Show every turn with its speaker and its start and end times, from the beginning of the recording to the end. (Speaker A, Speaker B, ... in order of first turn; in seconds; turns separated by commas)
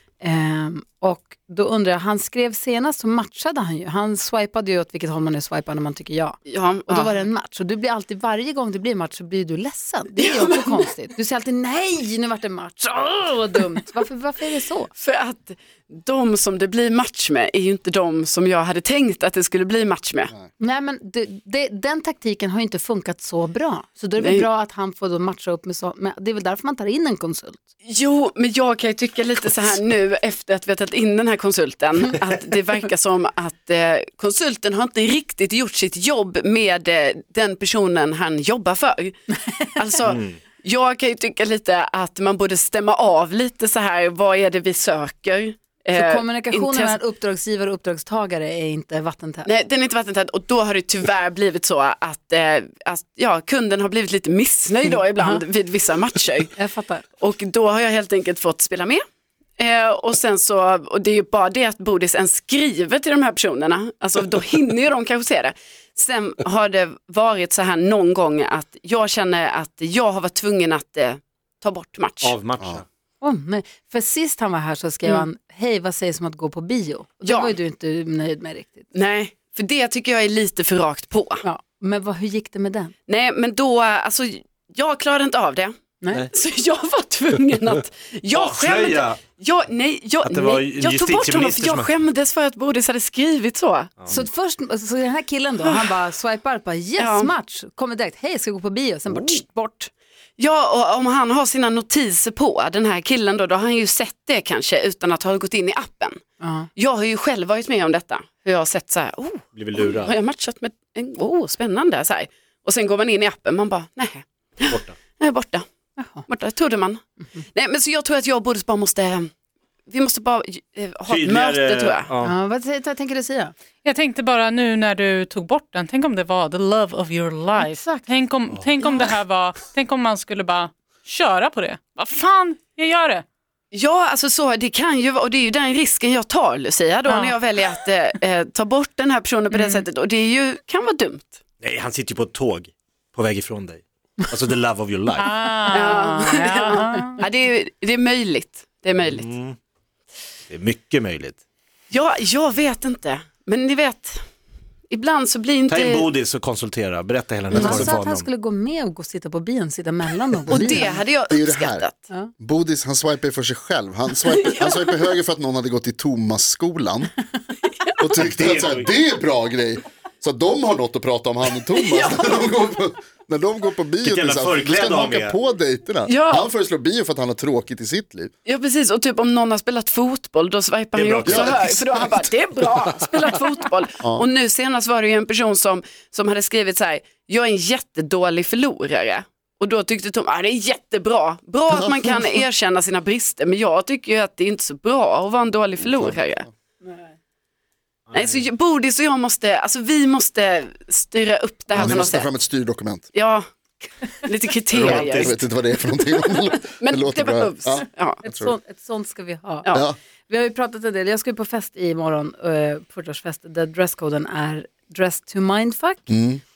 Speaker A: 0.2-14.9, Speaker B: 6.5-7.2, Speaker B: 10.2-10.8, Speaker B: 15.0-20.3, Speaker A: 20.6-27.6, Speaker B: 24.2-24.4, Speaker B: 27.9-39.2, Speaker A: 39.3-39.6, Speaker B: 39.8-47.0, Speaker C: 40.1-40.4, Speaker A: 46.0-49.5, Speaker B: 49.5-56.5, Speaker A: 56.6-57.0, Speaker B: 57.2-59.0, Speaker B: 59.6-72.3, Speaker C: 72.2-72.8, Speaker A: 73.2-78.9, Speaker B: 77.2-77.5, Speaker B: 78.9-81.4, Speaker A: 81.4-82.9, Speaker B: 83.1-85.7, Speaker B: 86.3-94.1, Speaker C: 88.3-89.2, Speaker C: 90.2-91.9, Speaker A: 94.1-99.9, Speaker B: 95.6-96.0, Speaker B: 97.0-97.3, Speaker C: 99.1-99.4, Speaker B: 100.4-106.2, Speaker A: 106.4-106.7, Speaker B: 106.8-115.7, Speaker C: 109.5-110.2, Speaker C: 114.7-115.0, Speaker A: 116.0-116.3, Speaker B: 116.3-117.0, Speaker B: 117.5-119.3, Speaker B: 119.9-122.1, Speaker C: 121.1-122.3, Speaker A: 122.2-123.5, Speaker D: 123.8-133.2, Speaker A: 127.6-128.1, Speaker B: 133.7-141.4, Speaker D: 137.1-137.3, Speaker D: 139.5-139.8, Speaker C: 141.6-145.3, Speaker D: 145.2-147.2, Speaker B: 145.7-149.3, Speaker C: 149.0-149.6, Speaker C: 150.5-151.4, Speaker B: 151.9-154.2, Speaker B: 154.9-156.1, Speaker C: 155.7-158.3, Speaker A: 157.5-161.0, Speaker B: 157.5-157.9, Speaker B: 160.5-162.1, Speaker E: 160.8-161.9, Speaker E: 162.4-167.1, Speaker B: 164.4-165.0, Speaker E: 168.0-178.3, Speaker C: 168.2-168.9, Speaker B: 171.7-172.4, Speaker C: 174.0-175.4, Speaker B: 176.1-176.5, Speaker B: 178.5-196.5, Speaker C: 180.9-182.2, Speaker E: 181.3-181.6, Speaker E: 195.9-196.2, Speaker A: 196.8-197.1, Speaker C: 198.1-198.5, Speaker B: 198.1-202.3, Speaker E: 201.8-203.1, Speaker B: 203.1-203.5, Speaker B: 204.2-205.5, Speaker C: 204.7-205.4, Speaker E: 204.8-208.6, Speaker B: 206.6-208.2, Speaker A: 208.2-209.7, Speaker A: 210.3-216.1, Speaker E: 216.1-216.4